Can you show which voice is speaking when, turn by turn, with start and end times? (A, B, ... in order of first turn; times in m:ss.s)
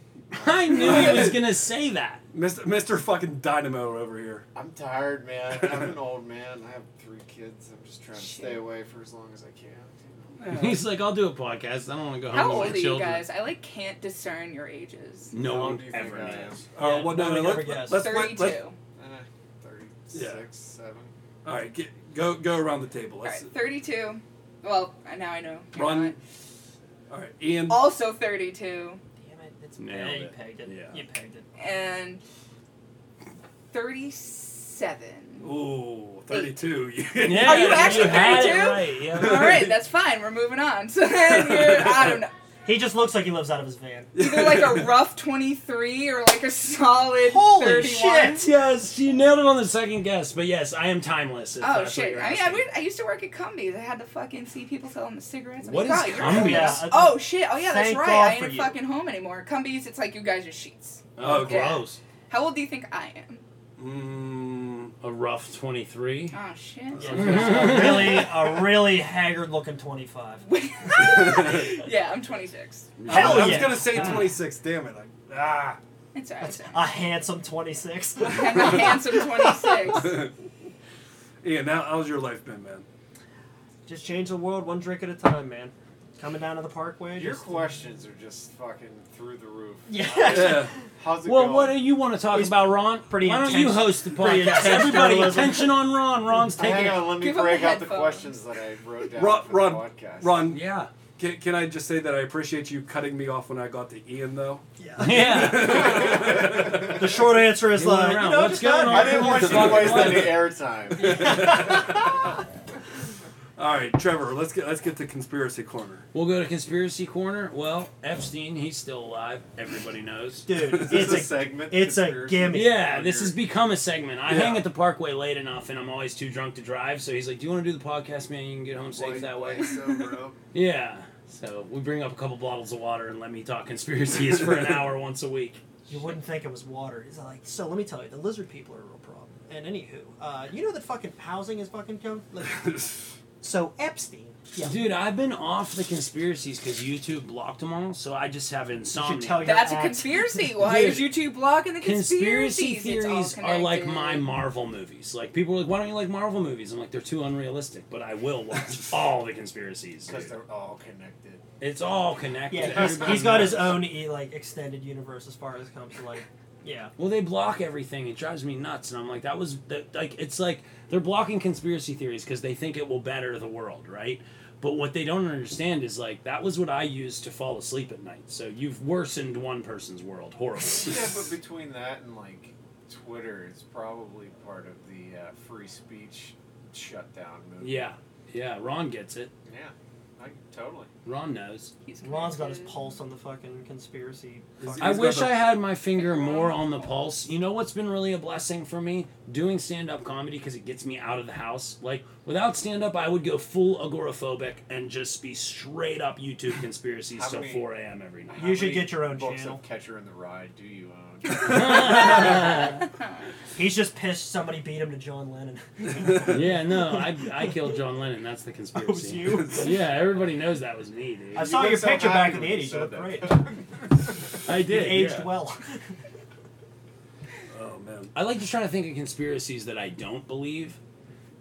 0:00.3-0:01.1 A
0:00.3-0:02.2 B
0:00.7-0:01.4 C
0:02.3-0:04.4 C
0:04.5-0:10.4 A
0:05.6-0:05.9 C
0:08.2-0:08.6 D
0:10.4-0:10.8 C
0:10.5-0:13.2 B
0:12.3-0:15.3 D
0:15.3-0:16.6 B
0:15.4-0:16.7 A
0:16.8-0:18.6 C
0:16.8-0:18.1 E
0:17.8-0:18.8 D
0:19.0-0:21.1 A
0:20.1-0:20.4 C
0:21.4-0:23.5 C
0:23.2-0:26.2 D
0:25.8-0:26.2 C
0:27.1-0:27.8 C
0:27.7-0:29.0 D
0:29.2-0:31.5 E
0:29.8-0:31.0 B
0:31.6-0:32.2 D
0:33.7-0:35.5 D
0:35.4-0:39.8 C
0:36.3-0:36.6 D
0:37.2-0:39.6 B
0:37.3-0:42.3 D
0:41.3-0:42.2 C
0:42.6-0:44.1 E
0:44.1-0:44.9 C
0:44.2-0:48.4 D
0:47.2-0:48.4 E
0:48.4-0:52.7 B
0:51.6-1:03.4 D
0:55.6-0:56.9 B
0:56.2-0:58.8 E
1:01.2-1:02.0 B
1:01.2-1:01.8 C
1:03.8-1:04.9 C
1:05.0-1:06.4 B
1:06.3-1:08.0 D
1:07.0-1:10.4 E
1:07.1-1:08.2 B
1:10.5-1:13.0 D
1:11.0-1:11.7 C
1:13.0-1:14.2 B
1:13.0-1:15.8 C
1:13.1-1:14.3 E
1:16.1-1:16.8 D
1:16.4-1:19.2 E
1:18.2-1:20.2 D
1:20.0-1:20.3 C
1:21.4-1:22.9 C
1:23.9-1:27.7 E
1:27.1-1:31.8 A
1:29.9-1:30.7 E
1:30.2-1:30.7 C
1:31.2-1:37.1 B
1:32.3-1:37.0 E
1:36.5-1:40.5 A
1:37.1-1:38.4 D
1:39.1-1:40.6 C
1:40.5-1:40.9 B
1:41.2-1:47.1 C
1:44.8-1:49.8 E
1:45.0-1:46.2 B
1:45.7-1:47.0 A
1:47.7-1:50.5 B
1:48.8-1:51.7 A
1:49.6-1:50.0 C
1:51.0-1:52.3 C
1:51.0-1:52.0 E
1:53.6-1:56.0 C
1:56.1-2:00.5 B
2:00.4-2:02.8 E
2:00.7-2:01.1 C
2:00.8-2:03.4 A
2:02.5-2:09.7 B
2:04.3-2:04.6 C
2:08.9-2:10.4 A
2:10.5-2:15.6 B
2:15.9-2:22.7 E
2:23.4-2:24.9 E
2:24.6-2:29.6 B
2:28.9-2:30.4 E
2:29.4-2:34.3 D
2:30.6-2:31.1 B
2:31.8-2:40.4 B
2:40.0-2:41.4 A
2:41.6-2:43.9 B
2:42.5-2:46.9 E
2:42.9-2:43.3 A
2:47.0-3:01.2 B
3:00.8-3:07.9 A
3:07.6-3:09.3 B
3:09.4-3:10.9 A
3:11.0-3:11.7 B
3:11.9-3:12.9 D
3:12.0-3:15.3 E
3:14.6-3:15.4 C
3:14.8-3:28.4 B
3:16.0-3:16.9 D
3:27.1-3:27.6 A
3:28.3-3:32.2 A
3:28.4-3:29.6 E
3:31.3-3:32.8 B
3:33.5-3:37.7 E
3:36.2-3:41.5 B
3:38.8-3:39.7 E
3:39.5-3:39.8 C
3:41.3-3:43.6 E
3:41.4-3:43.6 A
3:44.4-3:45.3 B
3:44.5-3:45.8 E
3:47.5-3:48.1 C
3:48.1-3:50.8 B